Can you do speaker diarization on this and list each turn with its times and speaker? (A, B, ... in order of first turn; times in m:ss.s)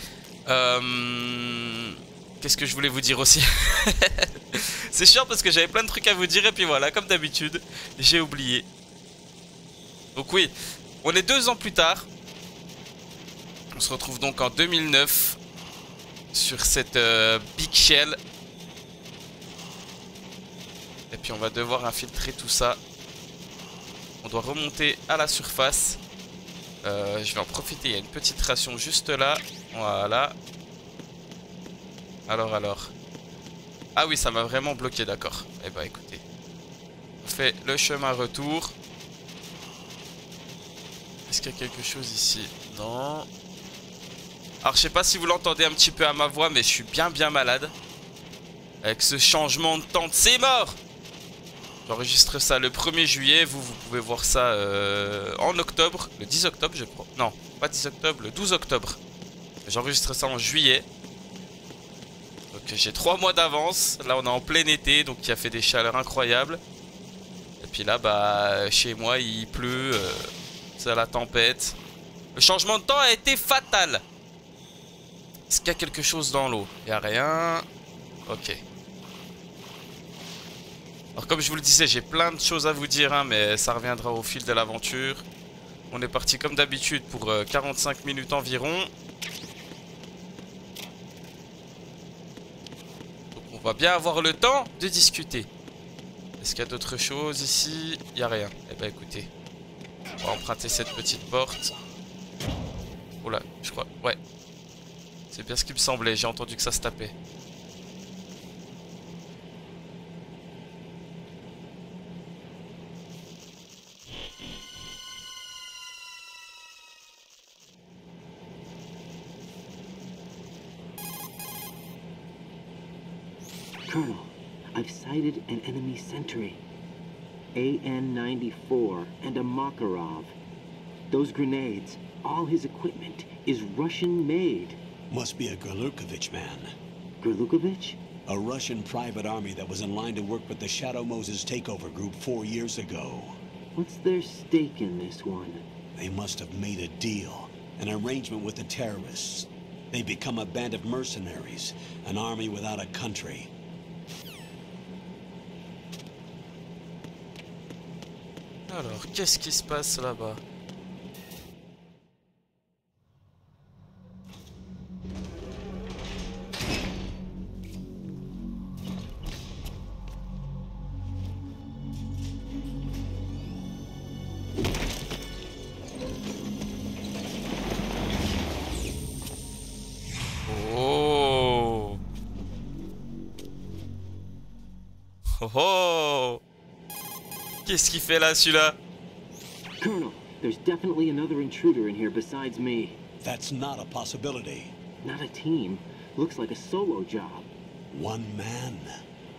0:00.5-0:08.7 A
0:10.2-0:12.1 A
0:13.8-0:15.4 A
0:16.3-0:18.2 A
0:21.1-0:22.8 A
0:24.2-0:26.0 A
0:26.8-0:30.4 A
0:32.3-0:32.9 A
0:34.0-0:36.2 A
0:37.2-0:38.8 A
0:41.3-0:43.3 A
0:44.6-0:47.7 A
0:48.8-0:50.8 A
0:51.9-0:59.0 A
0:59.6-1:00.9 A
1:02.5-1:06.6 A
1:07.6-1:11.8 A
1:12.4-1:14.0 A
1:15.5-1:17.6 A
1:18.3-1:18.6 A
1:21.2-1:25.2 A
1:25.9-1:28.9 A
1:33.3-1:35.5 A
1:36.4-1:39.3 A
1:40.2-1:41.7 A
1:43.2-1:44.2 A
1:45.3-1:47.1 A
2:03.9-2:06.6 B
2:07.6-2:10.4 B
2:11.1-2:14.8 B
2:15.1-2:16.7 C
2:17.2-2:18.0 B
2:18.3-2:23.4 C
2:23.8-2:25.6 B
2:26.0-2:33.5 C
2:38.7-2:40.4 A
3:00.5-3:02.0 A
3:05.4-3:06.4 A
3:07.7-3:08.8 A
3:09.8-3:13.0 B
3:13.2-3:14.8 C
3:15.0-3:17.5 B
3:17.9-3:19.0 C